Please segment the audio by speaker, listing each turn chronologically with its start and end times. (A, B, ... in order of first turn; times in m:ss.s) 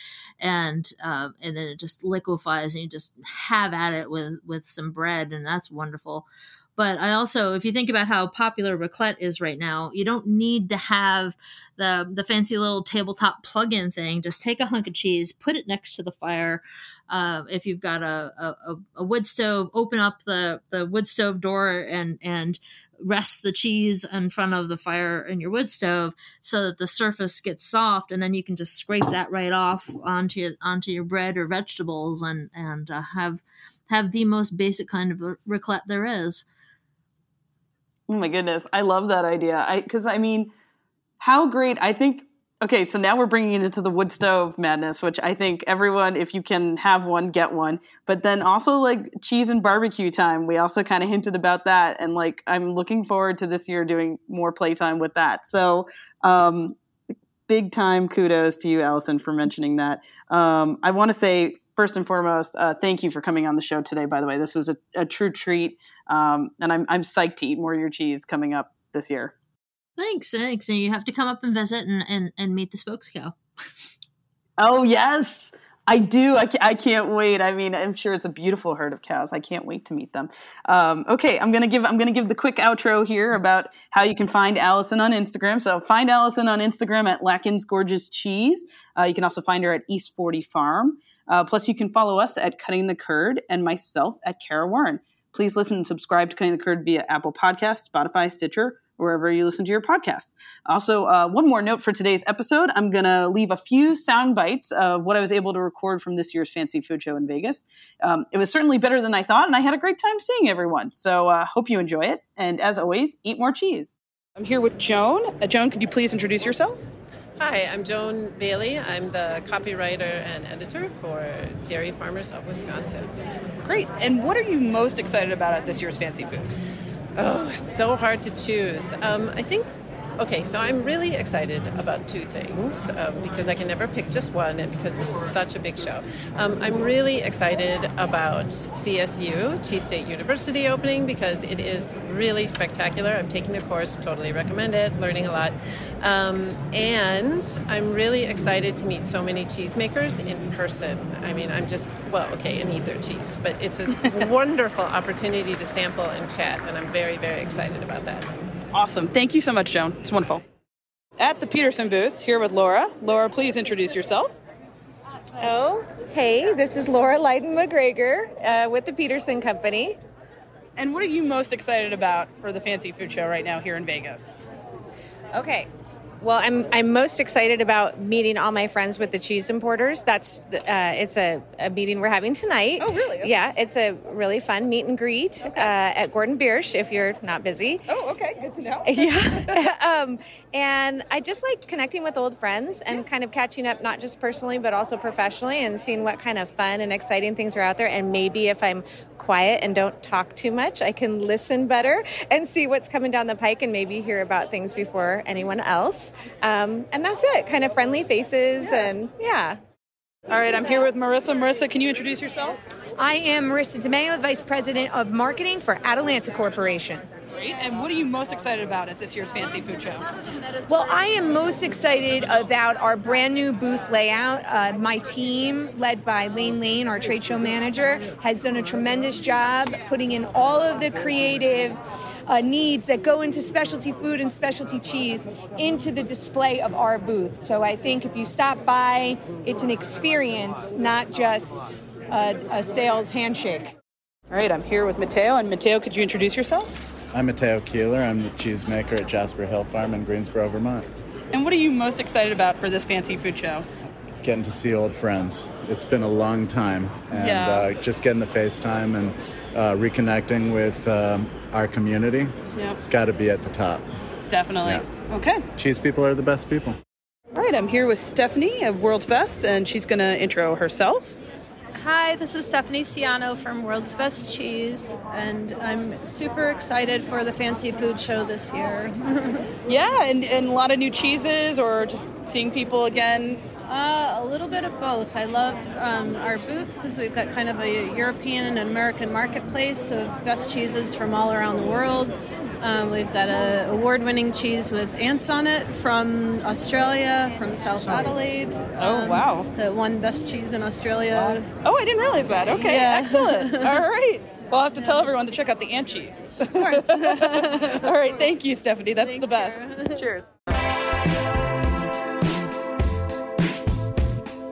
0:00.4-0:36.4 A
0:38.1-0:40.5 B
0:41.2-0:56.8 B
0:57.5-1:09.3 B
1:10.0-1:13.4 A
1:14.6-1:56.8 B
1:57.4-2:03.1 C
2:03.6-2:06.4 B
2:07.2-2:38.3 C
2:38.7-2:40.4 B
2:41.2-2:44.4 B
2:45.4-2:50.0 D
2:50.8-2:54.4 B
2:55.3-2:55.7 D
2:56.2-3:07.8 D
3:02.8-3:03.4 B
3:05.4-3:05.7 B
3:07.9-3:09.5 B
3:08.8-3:29.6 D
3:30.3-3:32.6 B
3:33.0-3:37.0 E
3:37.3-3:40.0 B
3:40.7-4:03.7 E
4:04.3-4:06.8 B
4:07.1-4:10.9 F
4:11.3-4:13.6 B
4:14.2-4:23.8 F
4:17.1-4:17.7 B
4:24.3-4:25.4 B
4:24.6-4:24.9 F
4:25.6-4:26.8 F
4:27.3-4:31.2 B
4:31.7-4:39.4 G
4:39.7-4:43.4 B
4:43.6-5:01.5 G
4:58.8-4:59.5 B
5:01.6-5:10.3 B
5:02.4-5:03.8 G
5:06.5-5:08.4 G
5:09.0-5:10.0 G